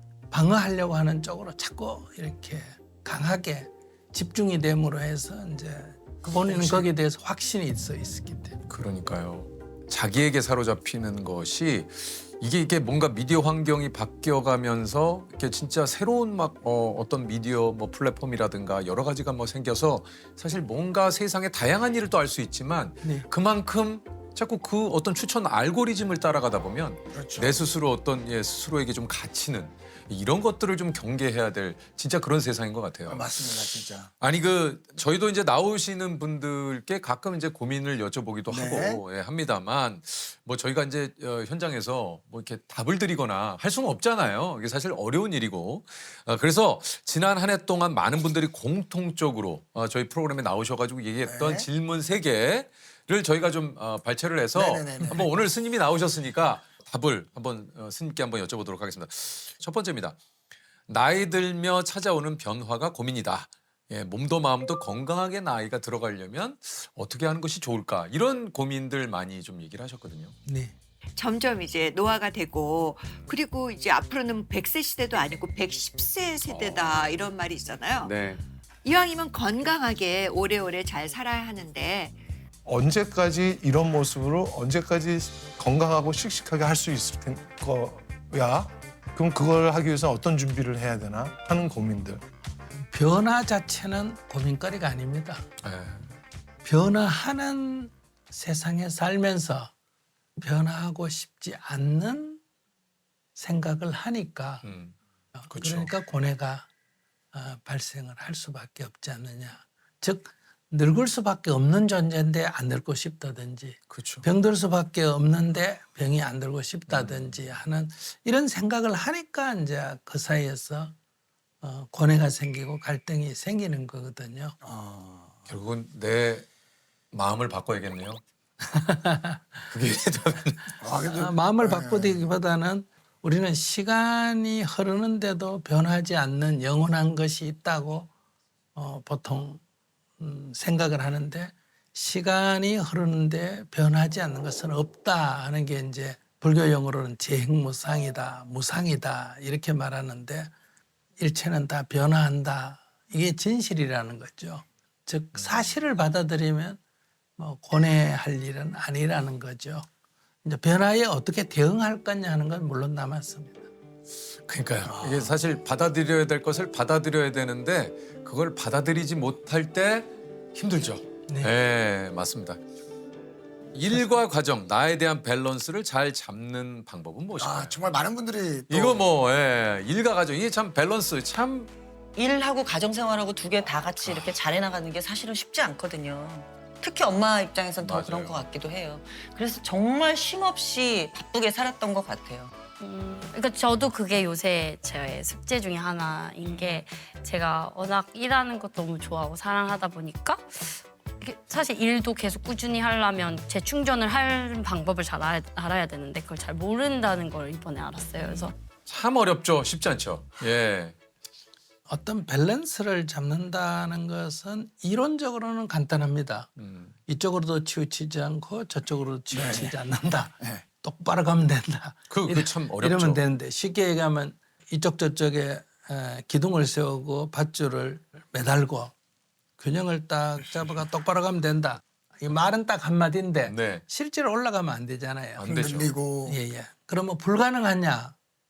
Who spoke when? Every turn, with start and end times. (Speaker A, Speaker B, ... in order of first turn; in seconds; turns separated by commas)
Speaker A: 0.3-8.6, Speaker B: 6.2-6.9, Speaker C: 8.7-33.5, Speaker B: 27.1-27.6, Speaker B: 33.1-34.1, Speaker C: 34.2-60.2, Speaker B: 38.5-39.0, Speaker B: 51.2-51.7, Speaker B: 54.5-55.4, Speaker C: 60.9-70.4, Speaker A: 70.5-70.8, Speaker D: 71.2-78.1, Speaker C: 76.5-77.0, Speaker C: 78.0-78.4, Speaker D: 78.8-82.2, Speaker E: 82.7-92.2, Speaker A: 92.8-95.4, Speaker C: 95.6-96.1, Speaker A: 96.6-99.7, Speaker A: 100.4-102.4, Speaker A: 103.4-104.7, Speaker C: 104.6-105.0, Speaker A: 105.4-106.7, Speaker C: 105.5-105.9, Speaker A: 107.3-120.9, Speaker C: 113.9-114.3, Speaker C: 116.9-117.6, Speaker A: 121.6-124.6, Speaker B: 124.6-125.5, Speaker C: 125.5-126.5, Speaker C: 127.1-128.2, Speaker A: 128.7-129.4, Speaker C: 129.7-130.8, Speaker B: 130.8-132.3, Speaker A: 131.1-138.1, Speaker A: 138.8-139.6, Speaker A: 140.2-150.5, Speaker A: 151.2-156.8, Speaker C: 155.3-155.8, Speaker A: 157.4-159.9, Speaker A: 160.4-163.7, Speaker C: 164.4-172.6, Speaker B: 164.9-165.3, Speaker A: 171.3-171.5, Speaker C: 173.7-177.8, Speaker B: 177.4-179.1, Speaker C: 178.7-181.7, Speaker F: 182.2-192.5, Speaker C: 184.0-184.4, Speaker C: 187.8-188.4, Speaker G: 192.8-208.5, Speaker C: 208.2-210.9, Speaker A: 211.9-216.5, Speaker C: 216.6-216.9, Speaker A: 217.1-228.9, Speaker B: 219.3-219.8, Speaker C: 222.1-223.2, Speaker A: 229.6-235.6, Speaker C: 233.4-233.8, Speaker C: 235.4-235.9, Speaker B: 235.4-236.4, Speaker A: 236.3-238.1